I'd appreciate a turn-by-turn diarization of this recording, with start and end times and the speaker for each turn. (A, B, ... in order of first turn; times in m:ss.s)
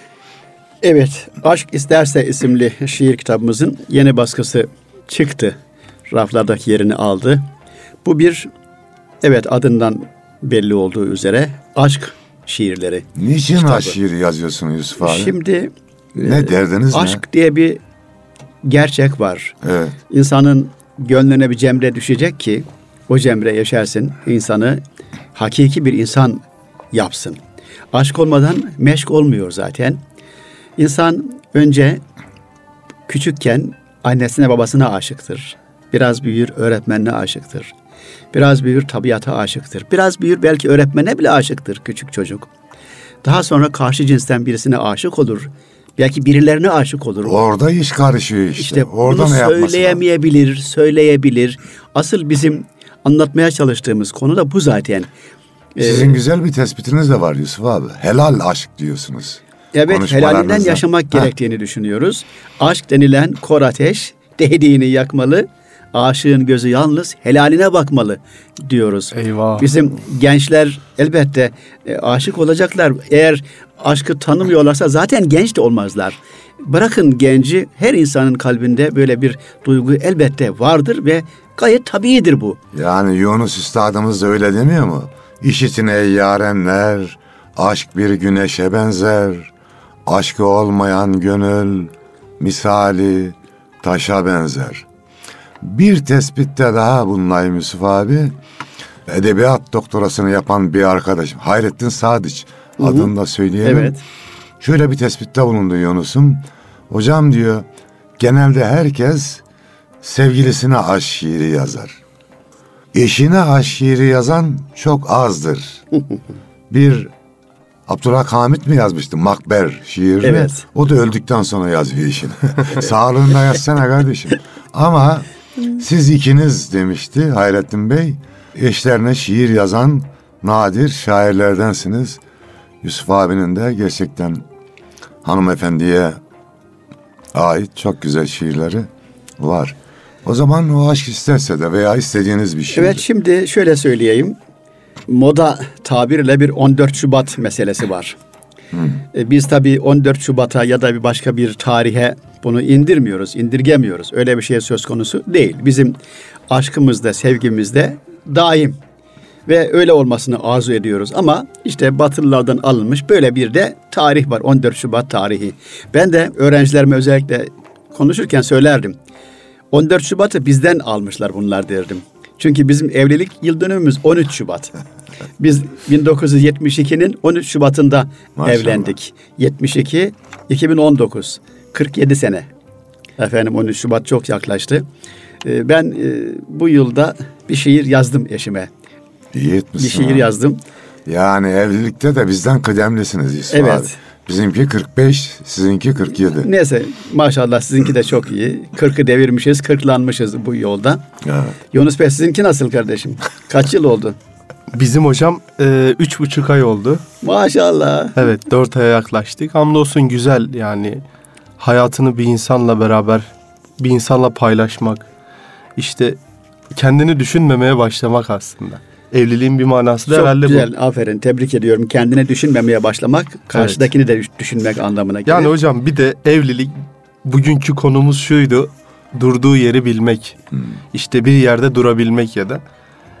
0:00.8-0:05.6 A
0:06.1-0:07.4 A
0:08.0-0:08.5 A
0:09.2-0:14.0 A
0:13.2-0:15.4 B
0:15.0-0:17.8 A
0:16.2-0:17.2 B
0:18.6-0:19.5 A
0:19.6-0:20.0 B
0:20.1-0:24.8 A
0:25.3-0:26.4 A
0:26.9-0:27.4 A
0:27.9-0:30.0 A
0:30.8-0:32.0 A
0:33.1-0:37.7 A
0:38.3-0:42.5 A
0:43.2-0:47.4 A
0:47.2-0:50.0 B
0:48.6-0:55.1 A
0:55.7-0:56.2 A
0:55.8-1:01.3 B
0:59.7-1:22.6 A
1:09.1-1:09.7 C
1:22.7-1:29.5 B
1:30.0-1:34.8 B
1:35.6-1:38.4 B
1:39.0-1:44.0 B
1:42.8-1:43.1 A
1:43.6-1:44.0 A
1:44.6-1:47.6 B
1:48.2-1:49.4 B
1:50.0-1:52.0 B
1:52.9-1:55.8 B
1:56.7-1:57.1 B
1:57.9-2:12.2 B
2:00.2-2:00.6 A
2:12.8-2:14.4 B
2:15.2-2:16.2 B
2:17.3-2:18.9 B
2:19.4-2:23.0 B
2:22.7-2:24.4 A
2:25.1-2:28.2 A
2:28.7-2:29.0 B
2:29.1-2:36.0 A
2:36.5-2:38.8 A
2:39.4-2:49.0 A
2:49.7-2:54.7 A
2:55.4-3:02.5 A
2:58.4-2:58.9 B
3:03.2-3:04.8 A
3:05.4-3:08.7 A
3:09.3-3:10.3 B
3:09.8-3:10.6 A
3:11.0-3:16.5 B
3:13.5-3:14.0 A
3:16.3-3:21.0 A
3:21.2-3:21.6 B
3:21.7-3:24.2 A
3:24.7-3:27.0 C
3:27.2-3:28.2 A
3:28.2-3:31.0 C
3:31.6-3:35.1 C
3:35.8-3:36.2 C
3:36.7-3:40.7 C
3:40.1-3:45.5 A
3:43.5-3:43.8 C
3:45.3-3:50.4 C
3:50.9-3:52.6 C